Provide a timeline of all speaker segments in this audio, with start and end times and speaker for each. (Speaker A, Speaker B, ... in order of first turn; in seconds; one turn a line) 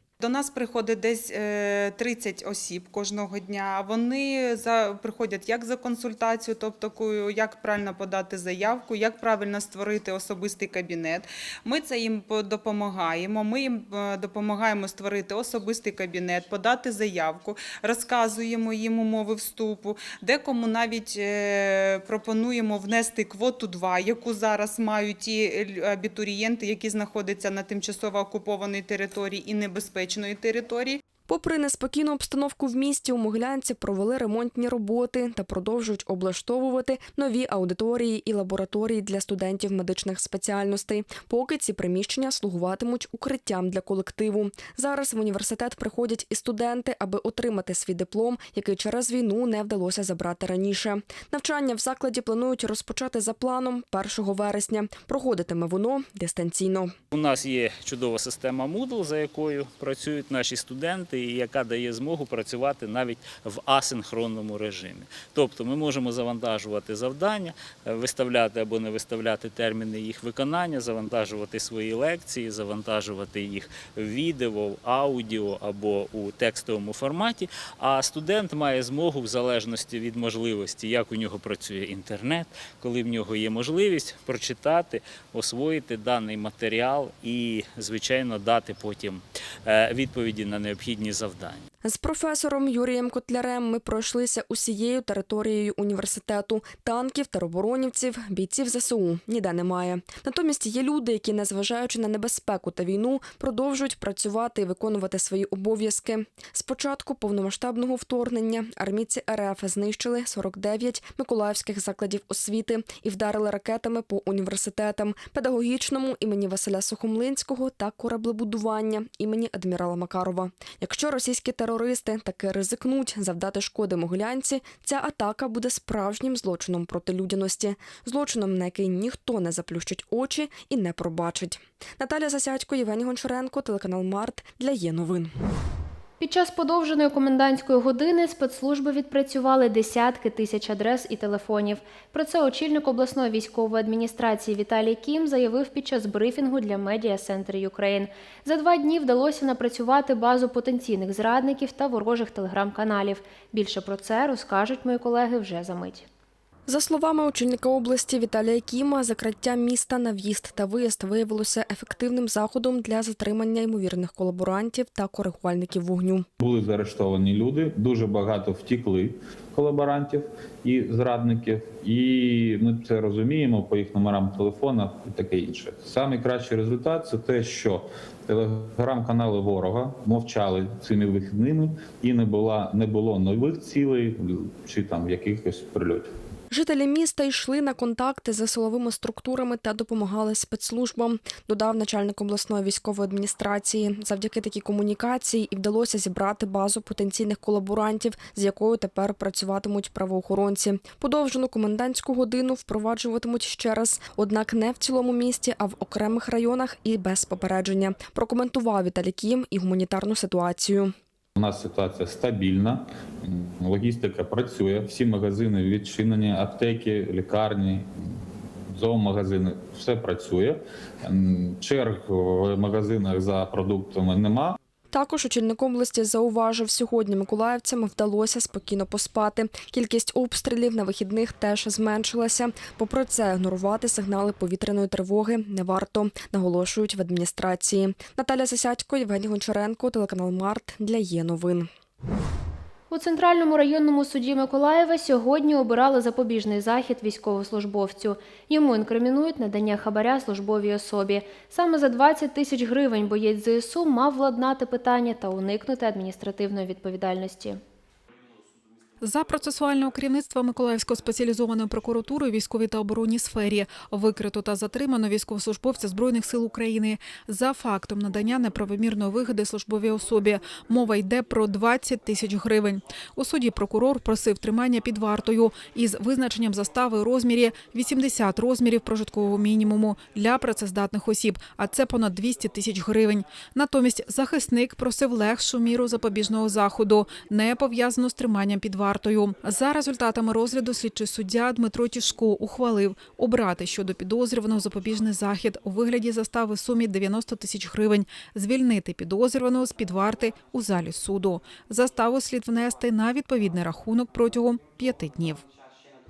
Speaker A: 0.2-31.0
Speaker B: 31.3-56.9
Speaker C: 57.1-91.6
Speaker B: 91.8-135.3
Speaker D: 136.2-156.1
Speaker B: 156.7-166.3
Speaker E: 166.4-186.1
Speaker B: 186.5-210.9
Speaker E: 211.4-217.9
Speaker E: 218.7-224.6
Speaker B: 224.9-241.7
Speaker D: 242.9-257.6
Speaker F: 259.0-305.4